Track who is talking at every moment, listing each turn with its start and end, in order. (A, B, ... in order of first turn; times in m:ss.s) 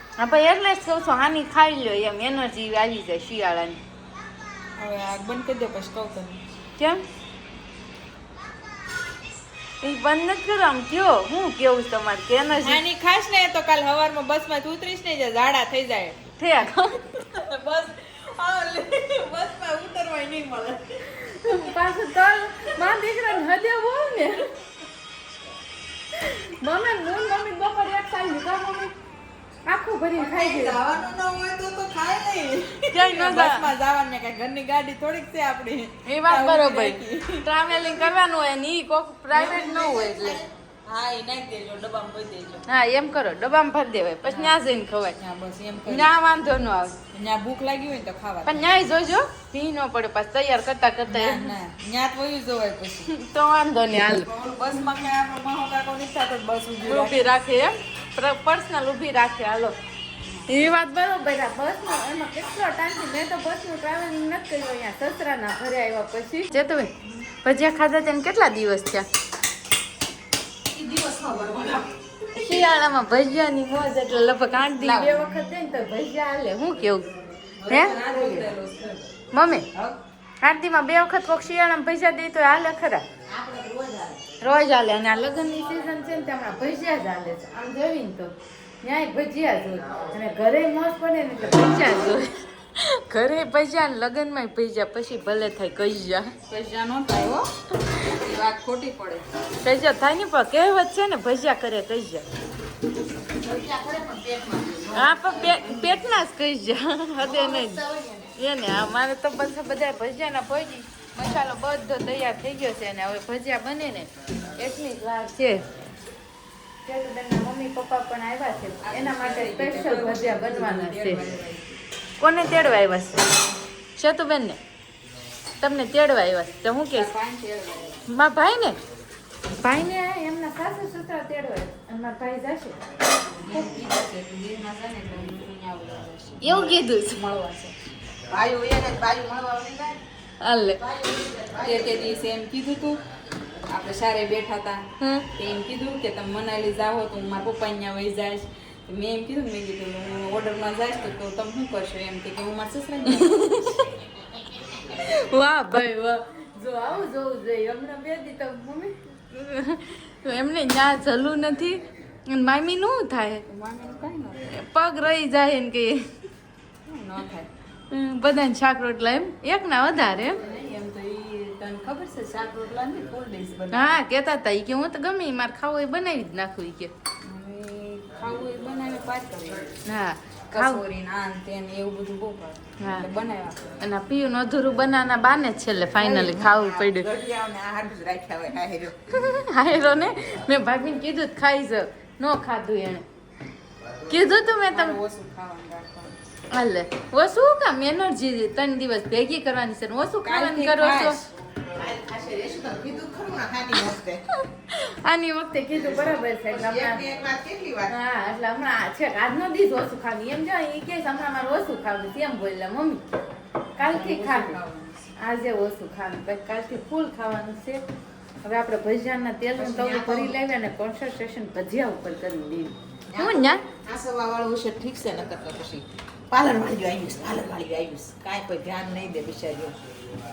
0:00.2-0:03.8 A
0:04.8-0:06.4 B
0:09.8-0:12.8 A
0:12.7-0:16.2 B
0:16.4-0:17.1 A
0:17.2-0:20.8 B
0:21.1-0:24.5 A
0:26.1-0:28.9 A
0:29.7-0:30.8 A
0:30.2-0:31.8 C
0:30.8-0:37.5 B
0:32.9-0:33.7 A
0:36.0-0:40.4 A
0:39.3-0:40.5 C
0:40.8-0:42.6 B
0:42.7-0:45.2 A
0:44.3-0:44.6 B
0:45.2-0:46.1 B
0:45.8-0:47.0 A
0:47.1-0:48.7 B
0:48.4-0:51.5 A
0:51.1-0:53.1 B
0:53.1-0:54.3 A
0:53.9-0:57.3 B
0:56.8-0:59.8 A
1:00.2-1:00.6 B
1:00.5-1:06.9 A
1:07.4-1:09.1 A
1:10.7-1:11.8 C
1:12.3-1:17.1 A
1:14.8-1:15.2 B
1:17.7-1:18.5 C
1:17.7-1:18.0 A
1:17.7-1:19.1 B
1:19.3-1:19.7 A
1:20.4-1:23.0 A
1:23.3-1:24.2 C
1:24.4-1:36.3 A
1:36.4-1:37.5 B
1:38.0-1:39.3 B
1:39.6-1:42.2 A
1:43.3-1:46.0 C
1:45.0-1:47.8 A
1:47.2-1:48.3 C
1:48.4-1:55.7 A
1:56.8-2:01.2 A
1:58.8-2:01.8 B
2:02.2-2:03.4 A
2:04.0-2:04.6 A
2:05.6-2:07.1 A
2:06.9-2:08.0 B
2:08.1-2:08.8 A
2:09.5-2:12.8 A
2:13.4-2:17.8 B
2:16.4-2:17.2 A
2:18.3-2:20.0 C
2:20.4-2:20.8 A
2:20.8-2:22.1 C
2:21.6-2:23.0 B
2:23.7-2:33.5 B
2:25.0-2:25.3 A
2:33.1-2:33.9 A
2:34.9-2:43.4 A
2:43.4-2:44.5 B
2:44.5-2:46.1 A
2:46.8-2:47.5 B
2:47.9-2:50.4 A
2:50.4-2:53.9 B
2:53.7-2:56.9 A
2:57.2-2:59.8 B
2:59.8-3:00.8 A
3:00.5-3:03.8 B
3:02.8-3:03.1 A
3:03.8-3:07.1 A
3:06.0-3:09.1 C
3:09.1-3:13.0 A
3:14.1-3:15.0 A
3:14.7-3:16.2 B
3:16.5-3:21.2 A
3:20.2-3:21.2 B
3:21.8-3:24.2 C
3:24.7-3:27.0 A
3:25.7-3:27.9 C
3:27.9-3:33.0 A
3:33.8-3:34.6 A
3:33.8-3:35.1 B
3:35.2-3:37.8 A
3:38.4-3:43.6 A
3:39.6-3:40.4 C
3:43.1-3:49.8 C